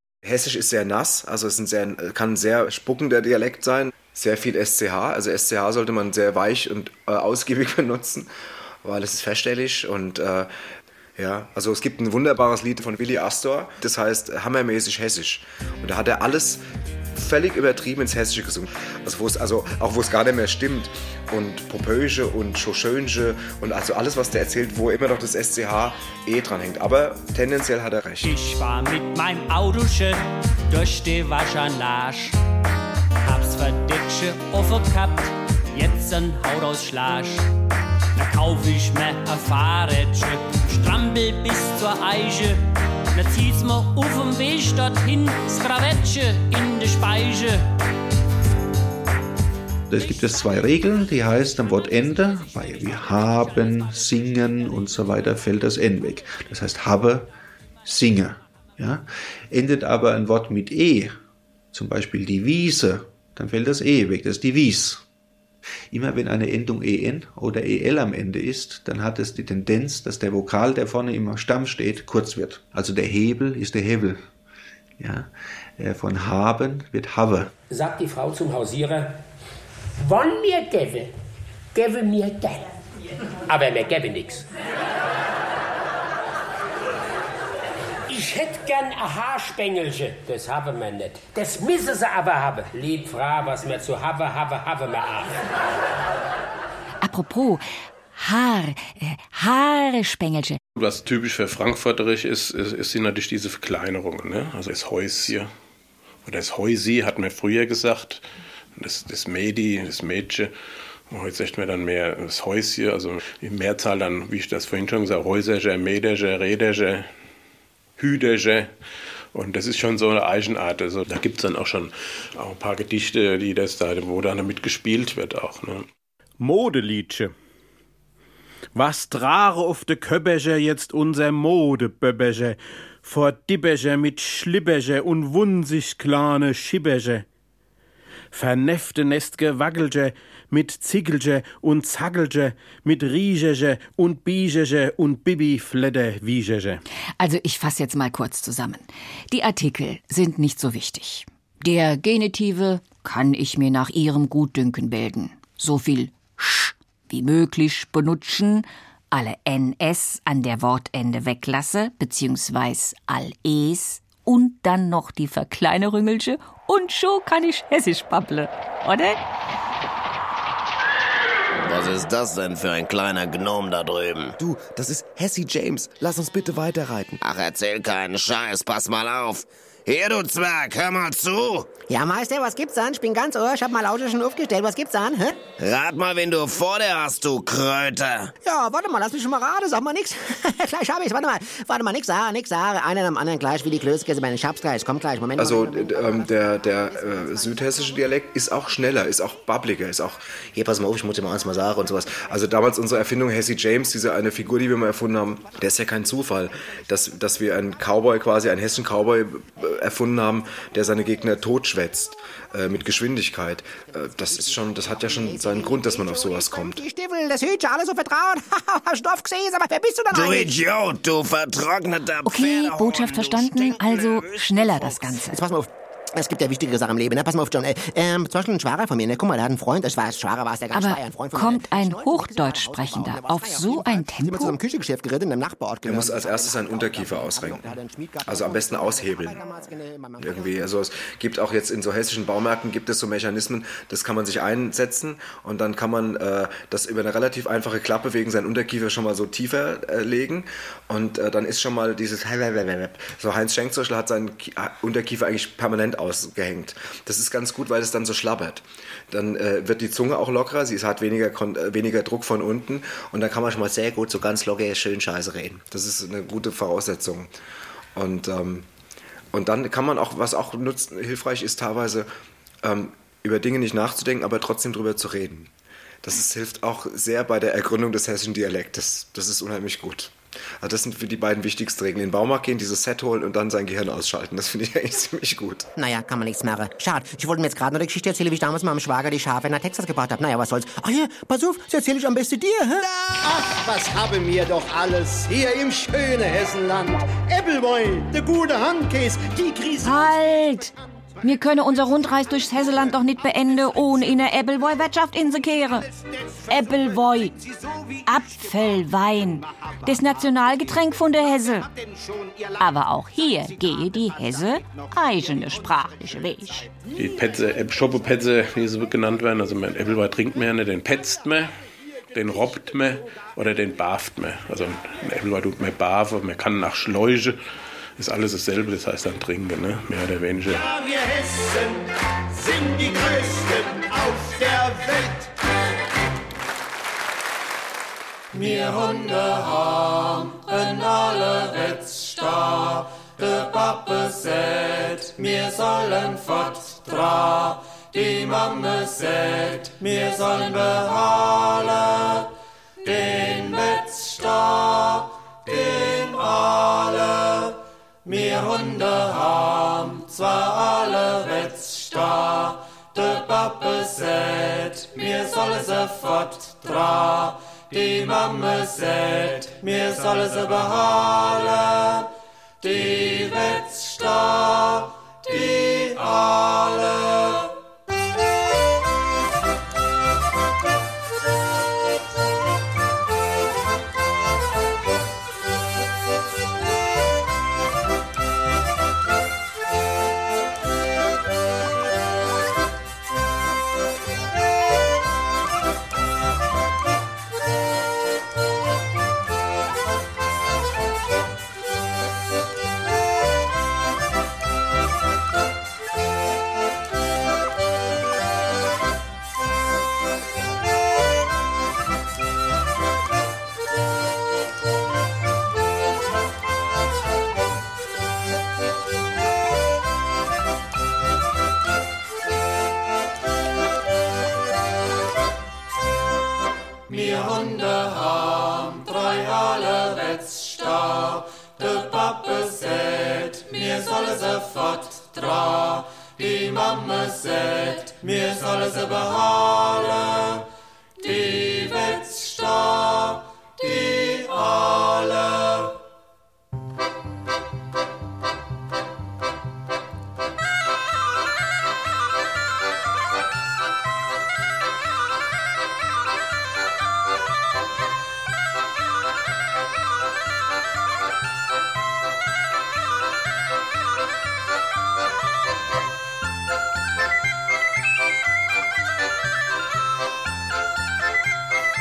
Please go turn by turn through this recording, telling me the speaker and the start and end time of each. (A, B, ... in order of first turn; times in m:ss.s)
0:00.2-0:08.3 A
0:08.8-0:10.5 A
0:11.2-0:16.6 A
0:17.1-0:28.4 A
0:28.2-0:30.2 B
0:30.7-0:32.4 B
0:33.2-0:37.5 B
0:38.2-0:42.6 B
0:43.1-0:47.7 B
0:49.9-0:57.3 C
0:57.8-1:01.2 C
1:01.7-1:05.0 C
1:05.9-1:14.2 C
1:15.0-1:17.5 C
1:17.7-1:19.2 D
1:20.0-1:21.1 D
1:21.7-1:22.7 D
1:23.5-1:24.5 D
1:28.1-1:35.4 D
1:37.0-1:40.6 E
1:40.8-1:45.5 F
1:46.3-1:48.2 F
1:48.8-1:50.5 F
1:51.1-1:57.1 F
1:58.0-1:58.7 F
1:59.3-2:05.9 F
2:06.4-2:07.3 G
2:08.8-2:17.2 G
2:18.3-2:26.8 G
2:27.2-2:49.2 E
2:51.6-2:54.4 H
2:54.4-2:57.2 I
2:57.2-3:01.8 H
3:01.8-3:05.4 J
3:05.6-3:08.3 H
3:08.4-3:16.3 J
3:15.4-3:20.4 A
3:17.0-3:17.8 J
3:20.6-3:22.2 J
3:22.1-3:36.8 A
3:34.4-3:40.6 J
3:40.1-3:44.5 H
3:42.2-3:45.4 E
3:44.8-4:00.6 J
3:50.7-3:54.6 E
3:55.8-3:59.4 A
4:00.2-4:27.3 A
4:28.0-4:28.7 A
4:29.3-4:32.1 A
4:32.6-4:35.5 A
4:36.0-4:45.7 A
4:45.8-4:52.8 J
4:53.2-5:00.1 K
4:59.8-5:05.9 E
5:06.5-5:07.4 E
5:08.1-5:11.7 E
5:12.6-5:16.7 E
5:17.0-5:21.5 F
5:22.1-5:27.4 F
5:28.0-5:30.6 F
5:30.7-5:31.8 K
5:32.3-5:35.3 K
5:38.3-5:52.3 L
5:52.8-6:12.1 L
6:12.6-6:17.5 L
7:06.9-7:20.4 L
7:21.0-7:25.8 L